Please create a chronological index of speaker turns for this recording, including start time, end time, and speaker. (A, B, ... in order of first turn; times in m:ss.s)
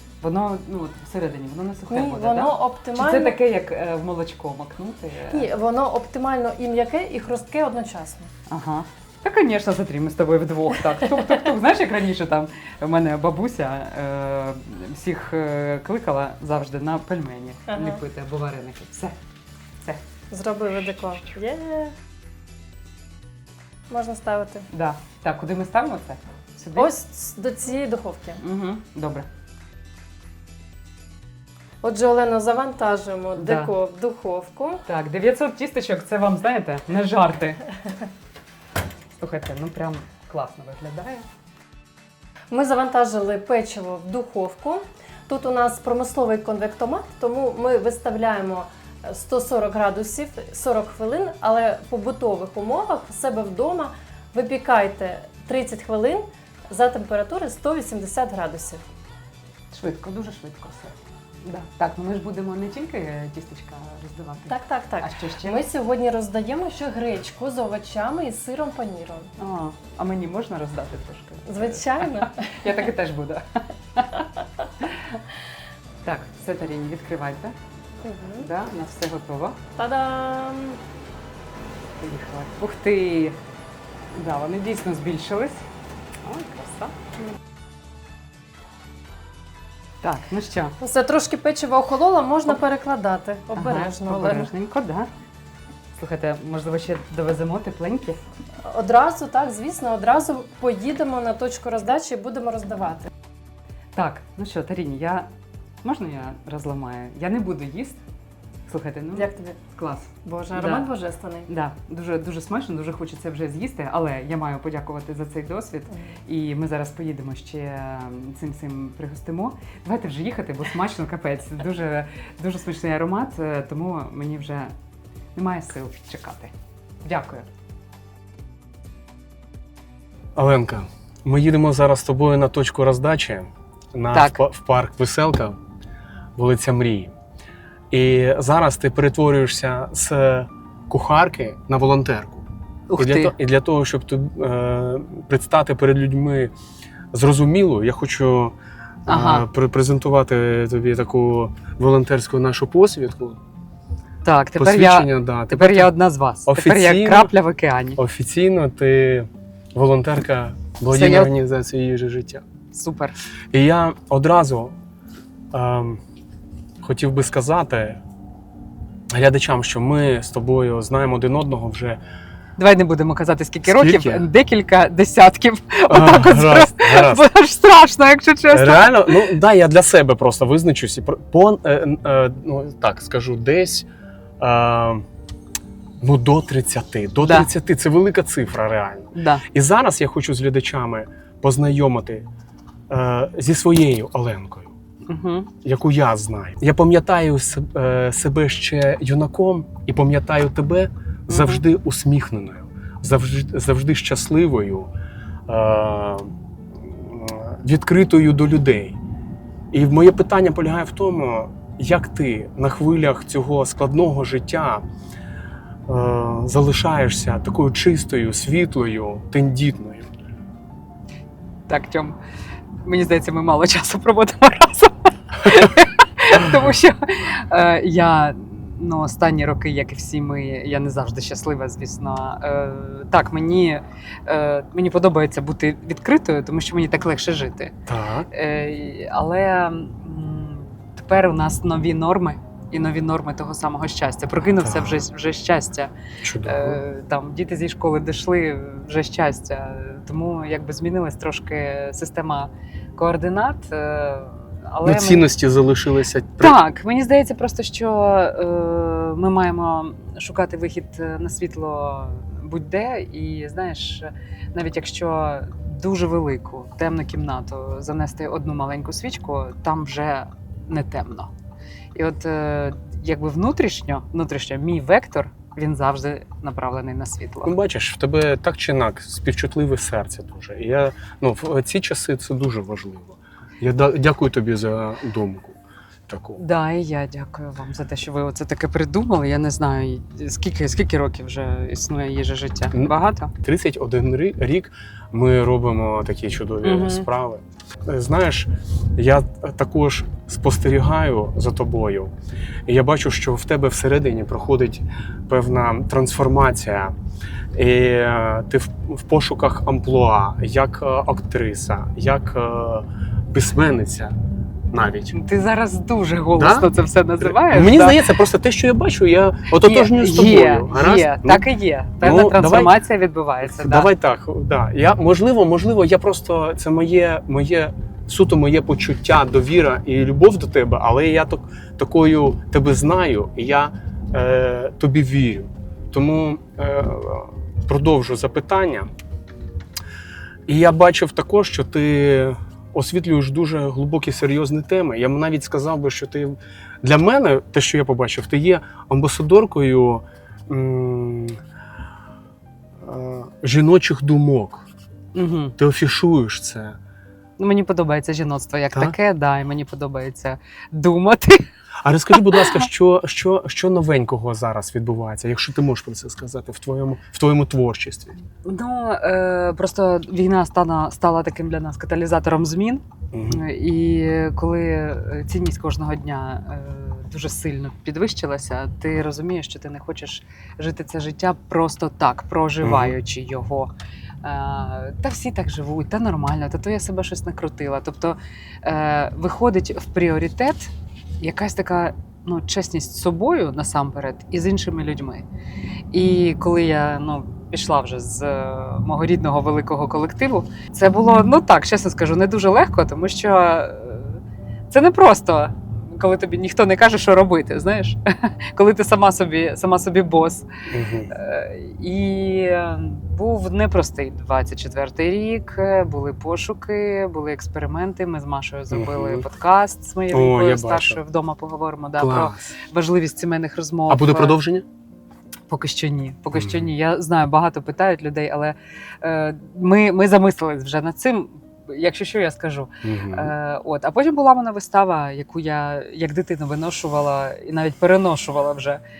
0:00.2-0:05.5 A
0:01.9-0:03.4 B
0:05.3-0:08.3 B
0:08.5-0:19.2 A
0:17.7-0:18.0 B
0:20.3-0:21.9 B
0:23.9-0:24.7 B
0:24.7-0:26.9 A
0:26.8-0:28.4 B
0:28.4-0:29.3 A
0:31.8-0:34.8 B
0:33.4-0:33.7 A
0:34.9-0:37.6 A
0:39.2-0:41.2 A
0:42.5-0:58.8 B
0:59.7-1:05.6 A
1:04.5-1:09.3 B
1:09.4-1:14.3 A
1:11.5-1:12.7 B
1:14.8-1:15.2 A
1:16.0-1:17.5 A
1:18.0-1:18.5 B
1:18.4-1:19.6 A
1:19.8-1:20.8 B
1:22.0-1:23.4 A
1:24.1-1:25.6 A
1:26.2-1:26.9 A
1:30.0-1:30.8 A
1:30.8-1:34.5 B
1:33.5-1:35.1 A
1:36.0-1:38.2 A
1:38.6-1:43.1 B
1:43.9-1:45.3 A
1:45.8-1:48.0 A
1:48.7-1:50.9 A
1:49.1-1:49.6 B
1:50.2-1:51.5 B
1:51.5-2:04.7 A
2:05.4-2:06.5 A
2:07.0-2:07.5 A
2:10.4-2:15.6 C
2:14.1-2:14.4 A
2:16.4-2:17.1 C
2:17.9-2:26.5 C
2:22.9-2:23.3 A
2:27.1-2:33.4 C
2:29.1-2:29.4 A
2:34.2-2:38.0 A
2:34.6-2:35.9 C
2:36.4-2:37.3 C
2:38.0-2:42.4 C
2:40.9-2:41.3 A
2:42.7-2:43.2 A
2:43.5-2:44.7 C
2:45.5-2:46.0 C
2:46.8-2:48.0 C
2:49.1-2:52.0 C
2:52.6-2:59.4 A
2:53.7-2:54.2 C
2:55.9-2:57.2 C
2:58.5-3:03.9 C
3:04.4-3:05.0 C
3:06.0-3:12.2 C
3:07.2-3:07.5 A
3:09.1-3:09.4 A
3:12.9-3:14.7 C
3:15.1-3:15.5 A
3:15.6-3:24.9 C
3:21.3-3:21.6 A
3:25.5-3:29.0 C
3:29.7-3:34.8 C
3:35.9-3:40.1 C
3:41.7-3:42.2 A
3:42.8-3:57.7 A
3:57.9-3:58.3 C
3:58.3-4:05.9 A
4:04.5-4:05.1 C
4:06.2-4:06.8 C
4:06.4-4:15.3 A
4:14.8-4:16.6 C
4:16.4-4:31.3 A
4:31.9-4:37.5 A
4:37.4-4:46.4 C
4:46.4-4:53.3 A
4:52.7-5:02.1 C
4:56.6-4:57.0 A
5:02.7-5:06.9 C
5:07.5-5:14.1 C
5:14.7-5:15.2 C
5:15.1-5:18.1 A
5:16.4-5:21.5 C
5:19.6-5:23.9 A
5:22.0-5:22.8 C
5:23.4-5:38.9 C
5:40.5-5:51.4 C
5:52.8-5:54.6 C
5:55.1-5:55.5 A
5:55.6-5:56.8 C
5:57.4-6:01.5 A
6:01.8-6:08.2 C
6:02.1-6:02.6 A
6:08.4-6:23.7 A
6:13.1-6:13.4 C
6:22.6-6:23.0 C
6:24.2-6:35.3 A
6:35.9-6:50.5 A
6:50.7-6:51.1 C
6:51.1-7:04.4 A
6:58.7-6:59.2 C
7:00.1-7:01.0 C
7:02.0-7:02.4 C
7:03.9-7:04.6 C
7:05.5-7:18.8 A
7:06.3-7:06.7 C
7:12.8-7:13.3 C